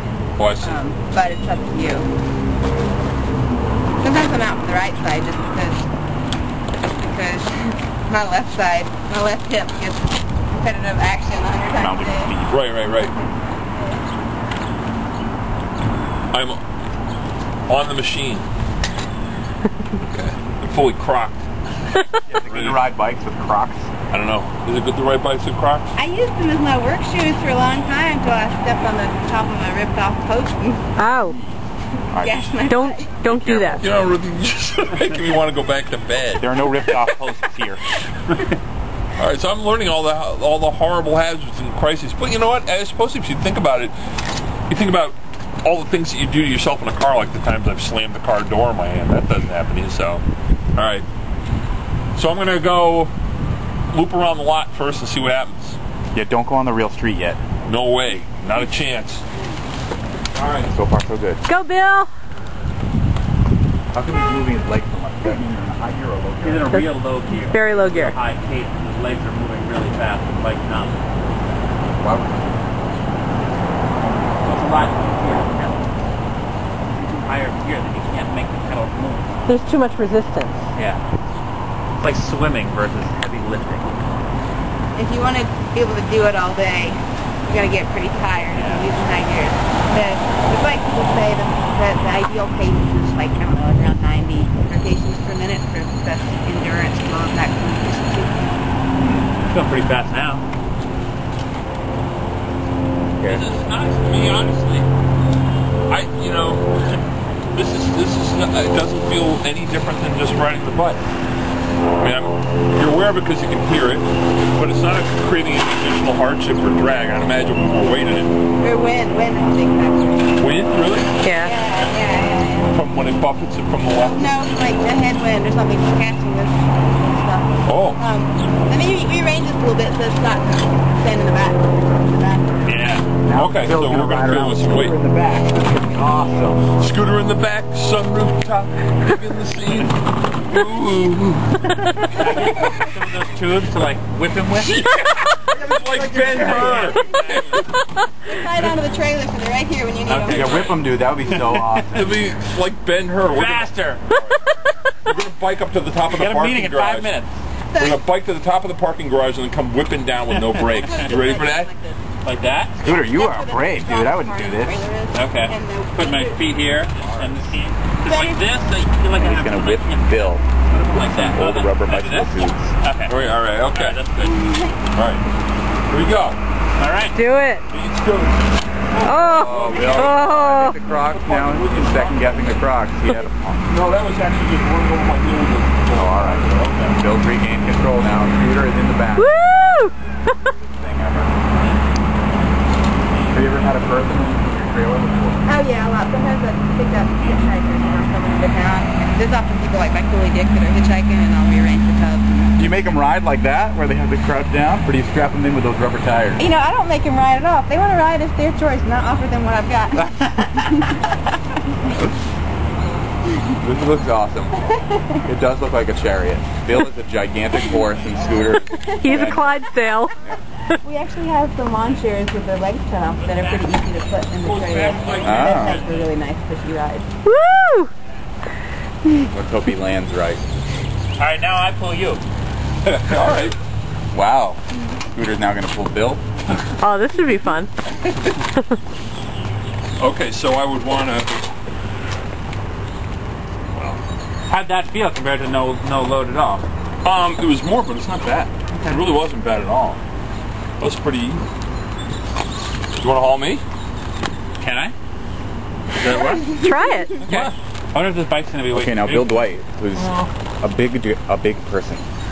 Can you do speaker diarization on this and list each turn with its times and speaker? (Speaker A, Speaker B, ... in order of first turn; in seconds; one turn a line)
Speaker A: 0.4-0.8
Speaker B: 0.6-2.1
Speaker B: 4.0-5.8
Speaker B: 7.0-12.3
Speaker C: 11.8-12.6
Speaker A: 12.5-13.2
Speaker B: 13.0-14.0
Speaker A: 16.3-16.6
Speaker A: 17.7-18.5
Speaker A: 20.0-21.4
Speaker C: 22.3-23.9
Speaker A: 22.5-22.9
Speaker A: 24.1-25.9
Speaker B: 25.9-30.9
Speaker D: 31.0-31.4
Speaker C: 32.1-32.5
Speaker B: 32.1-33.3
Speaker D: 32.7-33.8
Speaker C: 33.3-33.8
Speaker A: 33.8-37.2
Speaker C: 36.4-37.8
Speaker A: 39.2-43.9
Speaker A: 44.7-50.2
Speaker A: 50.8-51.1
Speaker A: 52.1-53.1
Speaker A: 53.9-55.8
Speaker C: 56.1-57.4
Speaker A: 57.6-59.2
Speaker A: 60.3-60.7
Speaker C: 60.7-61.4
Speaker D: 61.5-62.1
Speaker C: 63.9-66.7
Speaker E: 66.4-71.0
Speaker D: 67.4-68.2
Speaker C: 72.0-72.7
Speaker E: 74.4-75.9
Speaker E: 77.1-79.4
Speaker D: 79.5-80.7
Speaker E: 80.8-81.0
Speaker E: 82.0-83.9
Speaker B: 84.9-98.6
Speaker E: 88.5-88.9
Speaker C: 99.0-99.3
Speaker E: 99.5-100.4
Speaker A: 103.2-104.9
Speaker A: 105.9-106.8
Speaker A: 107.5-111.0
Speaker A: 112.0-118.4
Speaker B: 118.6-120.4
Speaker A: 120.4-121.2
Speaker D: 121.2-121.5
Speaker B: 121.4-122.8
Speaker A: 121.7-122.0
Speaker A: 122.6-124.5
Speaker B: 124.0-132.7
Speaker A: 127.7-128.0
Speaker A: 132.7-135.0
Speaker C: 133.2-136.6
Speaker E: 135.8-136.7
Speaker A: 136.8-142.9
Speaker E: 142.0-144.9
Speaker A: 144.5-147.6
Speaker C: 145.9-146.9
Speaker E: 146.2-147.8
Speaker B: 148.2-150.8
Speaker E: 150.1-151.9
Speaker C: 150.3-152.2
Speaker A: 151.9-154.4
Speaker E: 153.3-154.0
Speaker A: 155.1-157.1
Speaker E: 156.1-157.4
Speaker B: 157.7-158.1
Speaker A: 157.8-161.7
Speaker B: 160.7-162.1
Speaker E: 160.8-161.2
Speaker E: 162.2-162.8
Speaker B: 162.8-166.5
Speaker C: 162.8-164.9
Speaker E: 165.1-174.6
Speaker A: 166.8-167.4
Speaker B: 168.0-168.4
Speaker C: 169.2-170.4
Speaker C: 171.0-172.7
Speaker A: 173.1-174.0
Speaker B: 174.2-174.8
Speaker A: 174.9-175.2
Speaker A: 175.9-176.4
Speaker E: 176.8-177.2
Speaker D: 177.2-177.7
Speaker A: 177.7-180.3
Speaker D: 179.0-180.8
Speaker C: 179.3-183.7
Speaker A: 180.9-182.7
Speaker A: 183.7-187.1
Speaker C: 185.9-189.4
Speaker D: 189.2-189.9
Speaker C: 190.6-191.4
Speaker C: 193.3-195.5
Speaker B: 195.5-202.6
Speaker C: 202.6-206.4
Speaker B: 206.4-211.0
Speaker C: 213.6-214.6
Speaker B: 214.6-215.2
Speaker C: 215.2-219.6
Speaker B: 218.7-219.1
Speaker D: 219.0-220.2
Speaker B: 220.8-227.1
Speaker E: 223.2-223.8
Speaker E: 224.4-226.1
Speaker A: 225.0-225.7
Speaker C: 225.2-225.8
Speaker D: 227.2-227.9
Speaker C: 229.2-230.4
Speaker E: 231.2-232.2
Speaker A: 232.8-233.6
Speaker C: 234.1-236.2
Speaker D: 236.8-237.7
Speaker A: 240.0-241.5
Speaker A: 243.8-244.0
Speaker E: 244.5-246.7
Speaker A: 247.0-250.0
Speaker E: 248.7-249.1
Speaker A: 250.8-251.5
Speaker A: 253.0-253.6
Speaker E: 254.6-254.9
Speaker A: 256.0-256.6
Speaker E: 256.0-256.6
Speaker B: 256.4-257.1
Speaker D: 256.6-257.2
Speaker A: 257.2-257.5
Speaker E: 257.2-260.3
Speaker C: 258.7-262.1